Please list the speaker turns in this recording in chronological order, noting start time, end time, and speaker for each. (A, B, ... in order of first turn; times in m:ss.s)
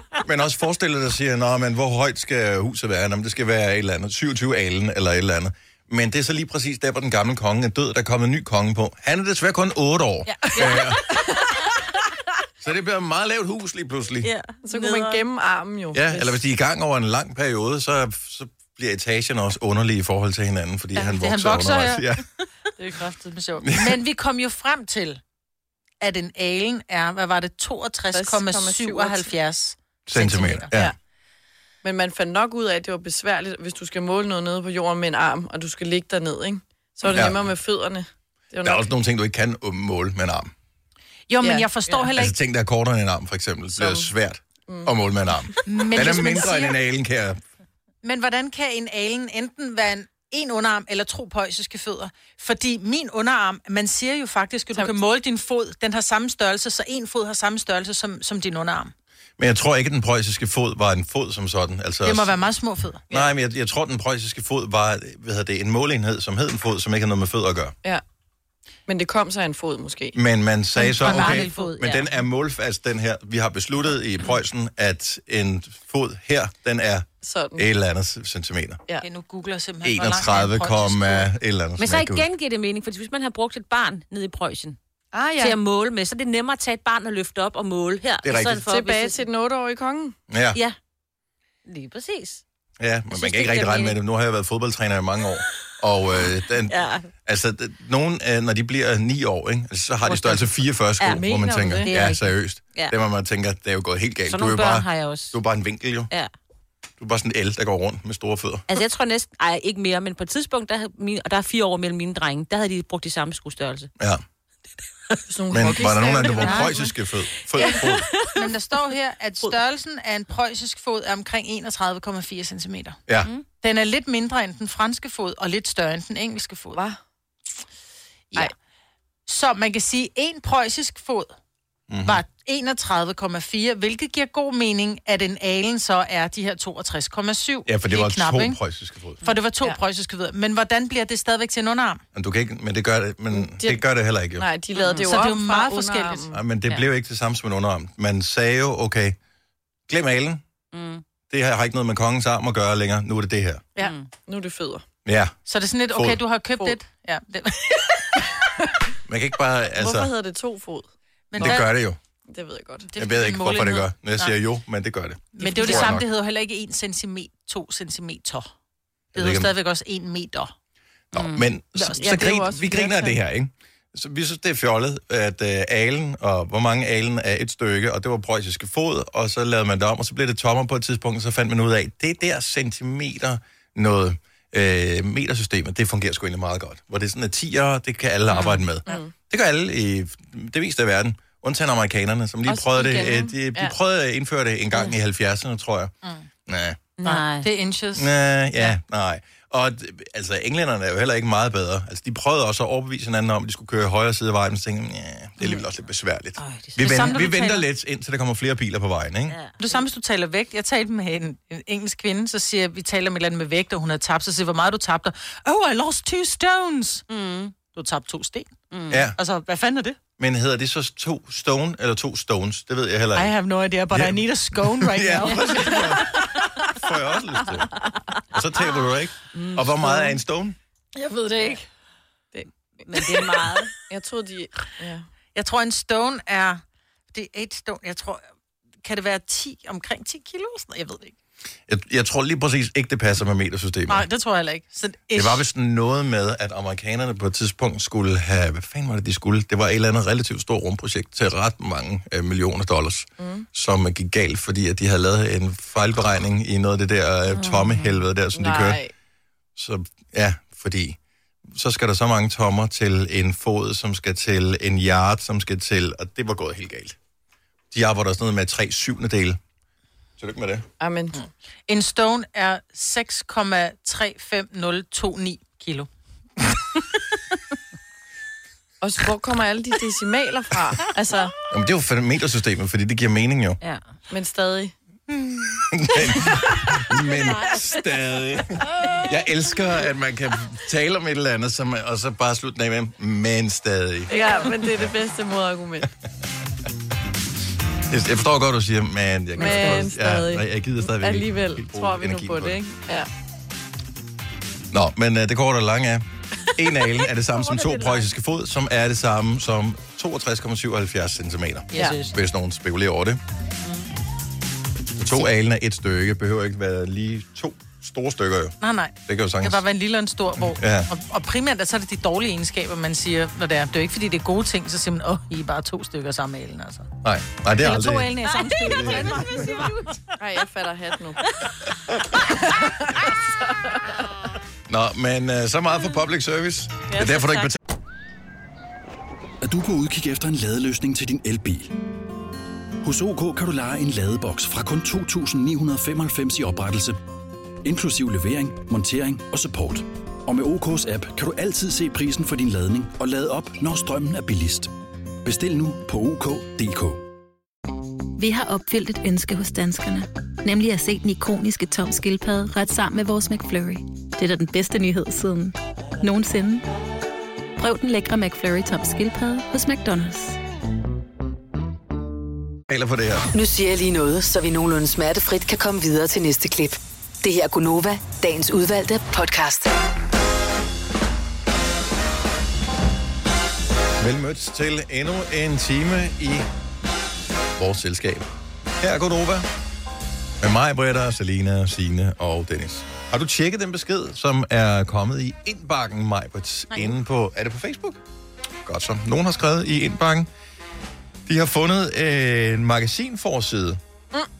0:00.2-0:11.3 A
0:10.3-0:10.8 B
0:12.6-0:14.3 A
0:14.2-0:15.2 C
0:14.6-0:16.4 D
0:15.9-0:22.2 A
0:21.0-0:22.1 B
0:22.8-0:25.2 B
0:23.6-0:24.0 A
0:26.0-0:30.7 B
0:28.1-0:29.4 D
0:30.1-0:30.9 A
0:31.8-0:38.9 D
0:37.1-0:37.5 A
0:38.6-0:40.5 A
0:41.3-0:42.3 B
0:41.4-0:42.1 D
0:42.2-0:47.4 A
0:43.7-0:44.1 D
0:44.7-0:44.9 D
0:45.7-0:46.8 B
0:48.0-0:58.9 B
0:59.4-1:02.4 A
1:02.0-1:03.3 B
1:03.1-1:07.8 A
1:08.9-1:10.2 D
1:10.1-1:18.8 A
1:10.8-1:12.1 B
1:11.1-1:11.5 C
1:17.2-1:17.7 D
1:19.0-1:21.3 B
1:19.8-1:22.3 A
1:21.8-1:24.8 C
1:25.1-1:25.6 D
1:25.4-1:29.2 C
1:28.2-1:28.6 A
1:28.6-1:30.2 D
1:30.3-1:30.6 A
1:31.7-1:32.4 C
1:32.8-1:46.1 A
1:33.1-1:34.0 C
1:36.6-1:37.1 C
1:40.1-1:40.4 C
1:41.0-1:41.3 C
1:41.0-1:42.1 D
1:41.8-1:42.2 C
1:44.3-1:45.4 C
1:47.0-1:48.6 A
1:48.7-1:53.9 C
1:55.3-1:56.9 D
1:55.5-1:58.1 A
1:56.2-1:56.7 C
1:57.6-1:58.4 C
1:58.3-2:03.0 B
2:03.6-2:06.8 B
2:06.7-2:07.0 D
2:09.3-2:11.3 B
2:11.9-2:12.2 A
2:12.0-2:18.6 B
2:17.7-2:19.2 A
2:19.2-2:22.0 B
2:22.1-2:24.5 A
2:23.3-2:23.8 D
2:24.4-2:26.4 D
2:24.8-2:25.2 C
2:25.0-2:26.2 B
2:26.3-2:29.2 A
2:29.9-2:30.4 A
2:30.7-2:31.0 C
2:31.3-2:33.7 A
2:33.8-2:34.1 C
2:33.8-2:34.8 D
2:35.0-2:35.4 A
2:35.5-2:38.2 B
2:35.9-2:36.2 A
2:39.1-2:40.1 A
2:39.8-2:41.6 D
2:41.3-2:41.7 B
2:41.4-2:42.0 A
2:42.3-2:42.9 D
2:42.9-2:44.3 B
2:43.0-2:46.0 A
2:45.4-2:48.5 B
2:49.1-2:50.5 B
2:49.2-2:49.5 A
2:51.1-3:15.9 A
2:51.1-2:51.5 C
2:51.8-2:52.9 B
2:52.0-2:53.0 D
3:08.3-3:08.7 C
3:08.9-3:09.1 D
3:12.5-3:13.7 D
3:16.5-3:16.8 A
3:17.0-3:17.5 C
3:17.0-3:18.7 B
3:18.0-3:29.4 A
3:26.4-3:27.2 C
3:26.8-3:27.6 B
3:29.3-3:29.8 C
3:29.6-3:37.0 B
3:37.1-3:37.5 C
3:37.7-3:38.5 B
3:38.7-3:39.1 C
3:38.9-3:39.2 A
3:39.2-3:40.0 B
3:40.2-3:43.3 A
3:43.2-3:45.9 B
3:43.9-3:47.7 A
3:48.3-3:50.6 A
3:49.3-3:50.1 C
3:51.0-3:51.6 B
3:52.3-3:55.1 D
3:52.8-3:53.7 C
3:55.4-3:56.6 B
3:57.1-3:58.2 B
3:58.8-4:01.2 B
4:01.7-4:04.1 A
4:03.9-4:05.4 B
4:05.1-4:18.8 A
4:13.2-4:13.4 D
4:17.3-4:18.0 C
4:18.3-4:18.9 D
4:19.6-4:21.0 A
4:21.5-4:27.0 A
4:27.7-4:29.4 A
4:30.2-4:30.7 A
4:30.8-4:31.2 D
4:31.7-4:35.9 B
4:38.8-4:41.4 D
4:41.5-4:43.6 A
4:44.1-4:44.7 D
4:45.5-4:54.2 A
4:54.1-4:55.9 D
4:57.9-5:02.6 A
4:59.4-4:59.8 C
4:59.4-5:03.1 D
5:04.7-5:13.2 A
5:11.7-5:12.2 B
5:15.0-5:19.6 A
5:18.6-5:26.9 B
5:20.4-5:20.9 A
5:27.0-5:29.4 A
5:27.5-5:29.9 B
5:28.4-5:29.9 C
5:30.2-5:31.3 D
5:32.2-5:34.2 D
5:34.7-5:37.6 A
5:36.9-5:37.5 C
5:39.4-5:41.7 E
5:42.8-5:47.0 E
5:47.6-5:54.7 E
5:55.2-5:57.0 E
5:58.2-6:06.7 F
6:07.6-6:10.4 F
6:12.7-6:13.3 A
6:13.3-6:19.7 G
6:24.0-6:26.5 A
6:27.6-6:28.3 A
6:28.8-6:29.5 A
6:30.4-6:38.0 A
6:38.6-6:40.3 A
6:41.3-6:43.8 A